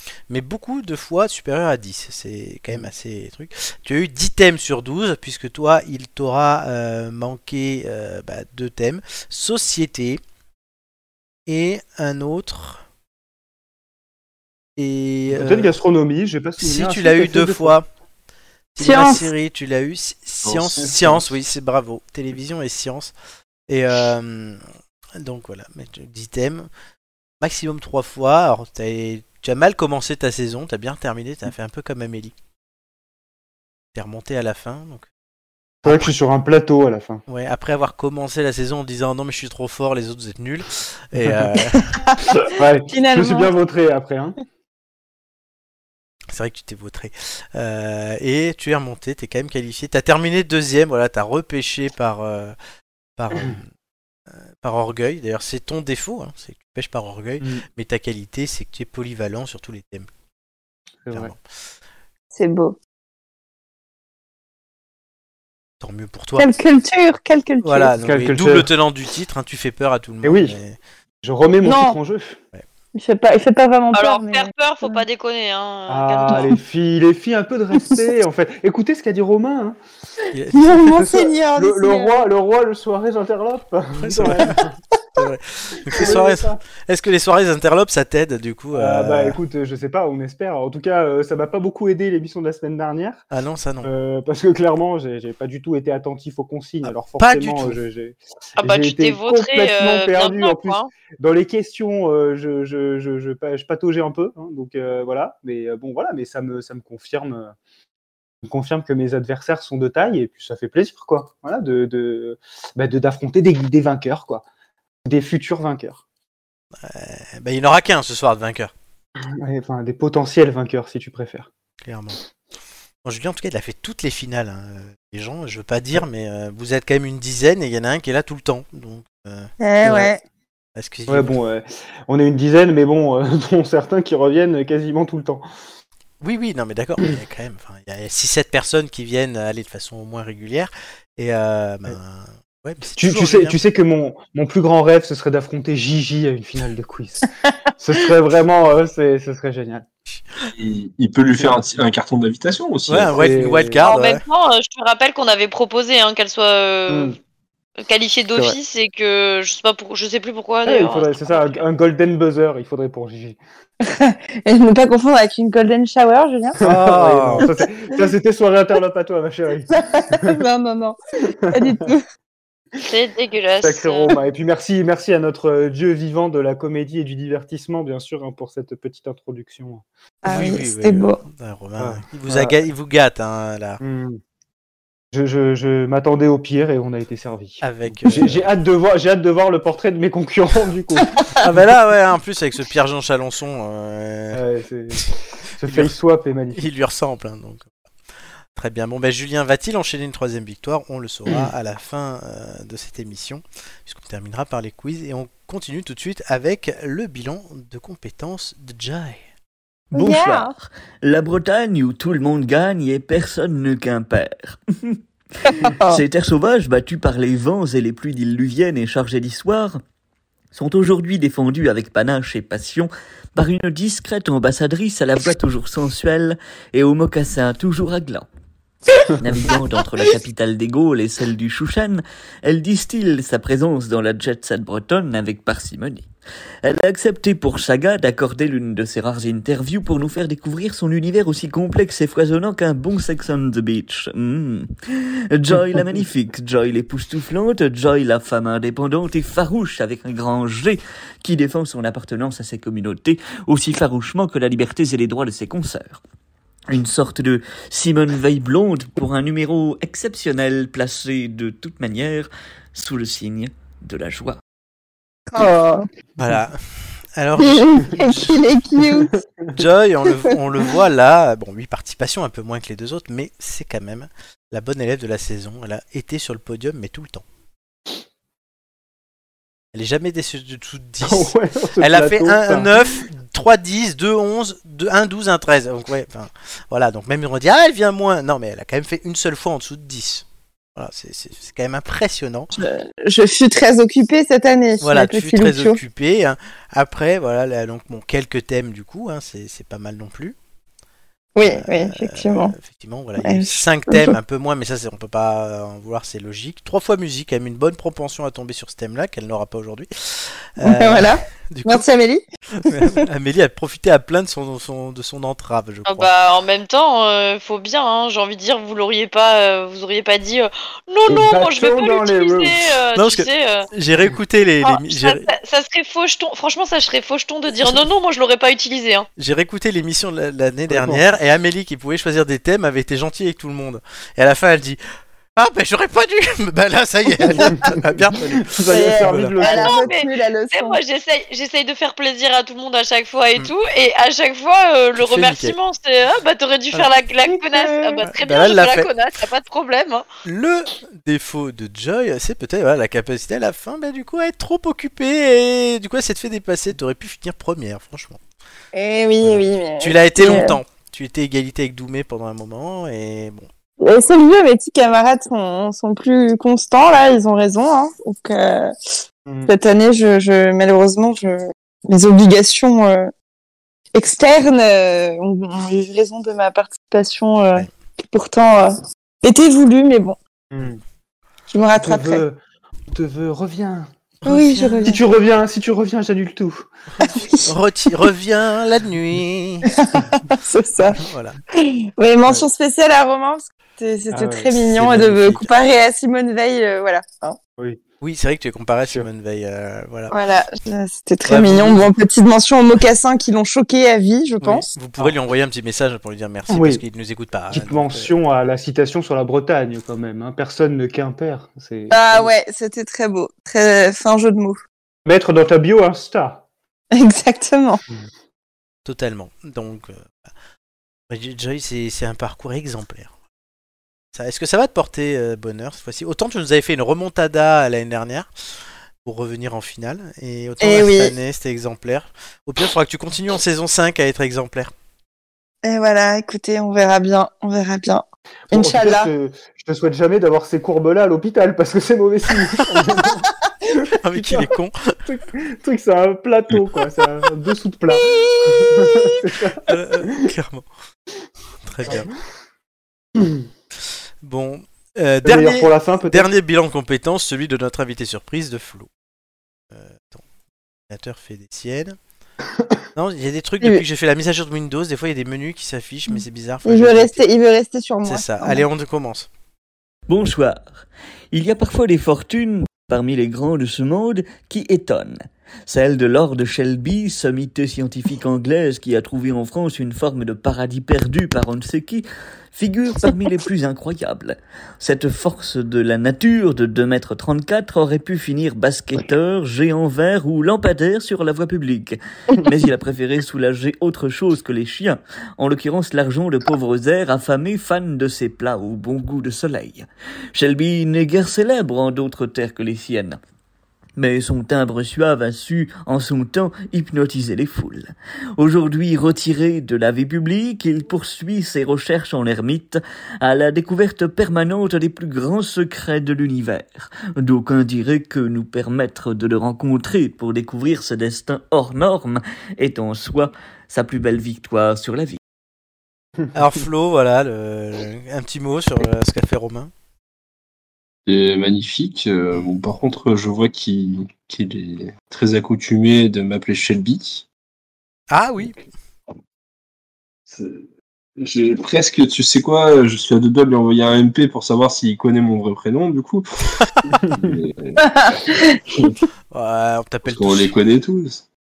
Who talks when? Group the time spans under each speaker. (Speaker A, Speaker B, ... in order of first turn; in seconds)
Speaker A: 0.3-10.2, 11.5-12.8, 14.8-15.7, 16.6-17.9, 18.7-23.1, 23.7-24.6, 25.2-26.7, 27.4-32.3, 33.9-35.0, 35.8-36.1, 37.3-41.9, 46.3-52.5, 53.2-53.6, 54.6-60.1, 61.1-61.4, 65.8-66.5, 67.6-70.8, 80.3-81.0, 84.0-84.6, 85.2-89.4, 93.3-93.9, 96.8-97.8, 116.8-118.7, 121.8-122.2, 123.0-129.5, 130.8-131.3, 136.2-143.6, 152.9-154.2, 166.6-167.5, 180.2-183.8, 187.6-188.5, 191.4-194.4, 195.7-195.9, 196.5-197.7, 198.5-209.2, 266.2-266.6, 267.1-268.4, 269.5-277.2, 279.7-292.5, 294.8-300.4, 301.4-311.8, 312.6-316.1, 322.9-325.2, 329.2-334.8, 335.3-339.4, 345.0-345.6, 348.0-348.9, 350.2-358.2, 359.2-363.5, 384.2-385.0, 387.0-389.7, 391.0-391.4, 394.7-395.5, 398.0-400.1, 401.3-401.9, 404.4-408.1, 418.8-420.1, 421.1-423.1, 424.1-428.3, 429.0-434.7, 444.0-444.9, 449.6-450.6, 451.6-452.1, 454.2-458.9, 459.7-460.2, 460.9-461.9, 462.9-467.2, 468.0-469.3, 526.3-529.7, 538.1-538.5, 549.3-550.5
Speaker B: 15.3-17.8, 20.8-21.2, 35.8-37.2, 41.2-41.5, 42.4-44.4, 61.0-61.3, 68.0-68.7, 70.2-70.6, 71.2-72.4, 75.9-79.8, 80.8-84.8, 85.9-86.6, 88.7-93.2, 93.8-107.5, 108.4-114.4, 115.0-116.0, 119.2-121.5, 129.8-130.1, 131.1-135.4, 142.9-147.3, 147.8-149.8, 153.1-153.9, 156.9-157.2, 160.7-163.4, 166.6-170.4, 171.4-171.8, 173.6-179.8, 181.8-182.6, 183.8-184.2, 185.1-191.6, 194.3-196.6, 269.0-269.6, 281.0-282.9, 321.1-322.6, 330.7-331.0, 337.4-339.8, 369.2-369.5, 380.5-380.8, 381.8-382.4, 382.9-383.9, 384.8-386.7, 394.1-394.5, 406.5-406.8, 407.5-412.3, 415.1-416.4, 438.5-443.2, 443.8-444.5, 445.0-450.1, 451.8-452.1, 453.1-453.4, 455.2-456.3, 462.5-462.8, 546.9-547.4
Speaker C: 18.8-19.2, 41.9-43.5, 62.3-62.8, 66.4-67.9, 71.6-72.0, 72.9-75.0, 80.5-82.3, 129.6-130.2, 163.8-166.6, 169.7-170.9, 171.5-172.0, 180.2-181.2, 209.9-210.5, 215.4-216.0, 265.3-265.9, 267.4-269.1, 292.6-295.8, 301.4-302.5, 303.2-304.2, 310.6-313.0, 338.7-340.8, 347.2-348.0, 358.7-360.6, 363.8-368.7, 369.5-373.1, 373.9-380.2, 381.5-382.2, 384.2-385.0, 387.1-387.5, 389.7-391.0, 391.5-397.4, 400.1-404.6, 411.9-414.6, 416.9-417.8, 430.6-431.1, 435.6-439.1, 447.9-449.2, 466.6-468.6, 547.8-548.8
Speaker D: 20.4-20.7, 150.5-153.3, 531.0-537.2, 540.3-540.6, 541.2-546.6, 547.1-549.0, 550.0-551.2
Speaker E: 73.9-76.5, 98.6-100.9, 153.8-157.2, 157.8-161.6, 172.8-174.1, 315.9-323.7, 324.6-329.1, 339.4-350.0
Speaker F: 209.9-215.0, 215.5-219.8, 220.5-228.3, 229.2-236.1, 236.6-256.0, 256.7-264.4, 470.1-503.2, 504.0-525.2